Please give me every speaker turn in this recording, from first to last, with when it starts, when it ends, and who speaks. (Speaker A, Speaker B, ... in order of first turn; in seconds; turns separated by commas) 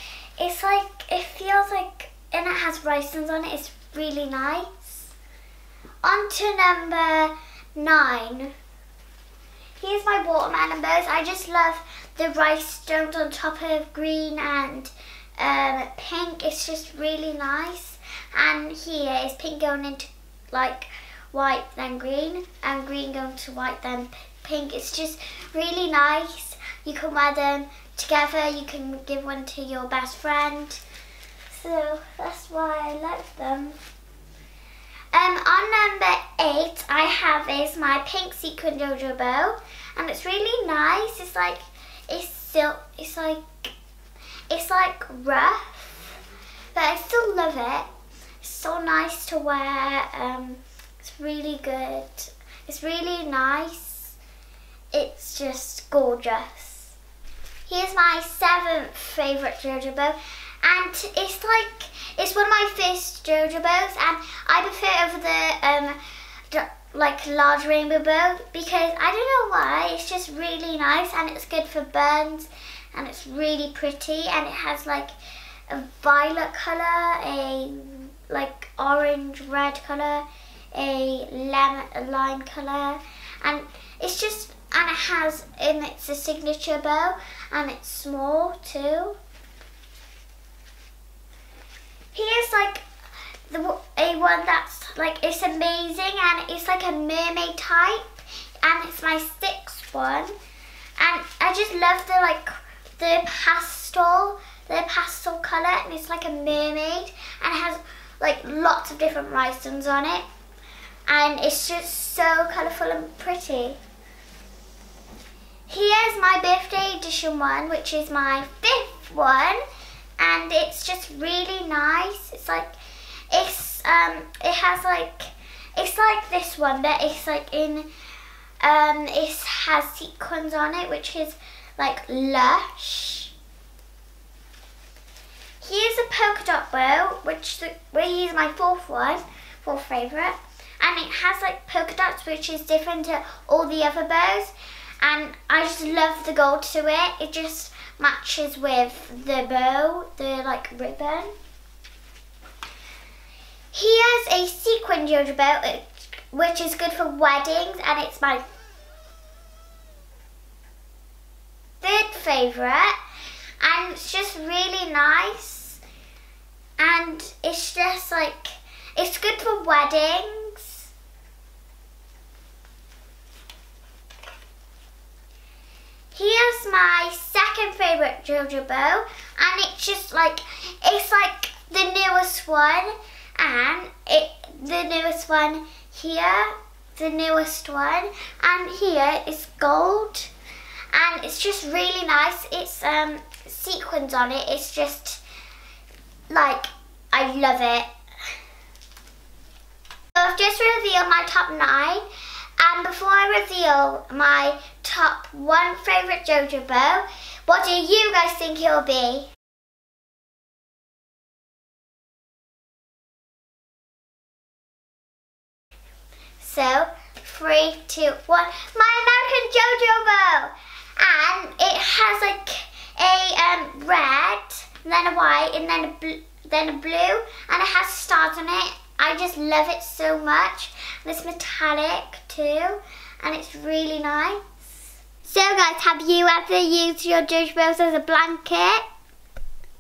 Speaker A: 0.4-5.1, Speaker A: 6.0-8.5, Speaker A: 9.8-30.8, Speaker A: 31.5-33.8, Speaker A: 35.1-43.7, Speaker A: 44.5-46.2, Speaker A: 46.8-47.9, Speaker A: 48.4-54.2, Speaker A: 54.9-57.0, Speaker A: 57.7-66.0, Speaker A: 66.5-75.1, Speaker A: 75.7-89.2, Speaker A: 92.1-92.8, Speaker A: 93.5-100.3, Speaker A: 101.0-110.2, Speaker A: 111.1-113.8, Speaker A: 115.7-119.6, Speaker A: 120.2-122.7, Speaker A: 123.3-127.9, Speaker A: 128.6-133.3, Speaker A: 135.6-151.3, Speaker A: 153.7-158.4, Speaker A: 161.8-162.9, Speaker A: 163.6-165.8, Speaker A: 166.8-170.9, Speaker A: 176.1-190.3, Speaker A: 190.9-195.2, Speaker A: 196.3-197.9, Speaker A: 200.2-202.1, Speaker A: 202.6-209.3, Speaker A: 216.4-234.6, Speaker A: 235.2-238.8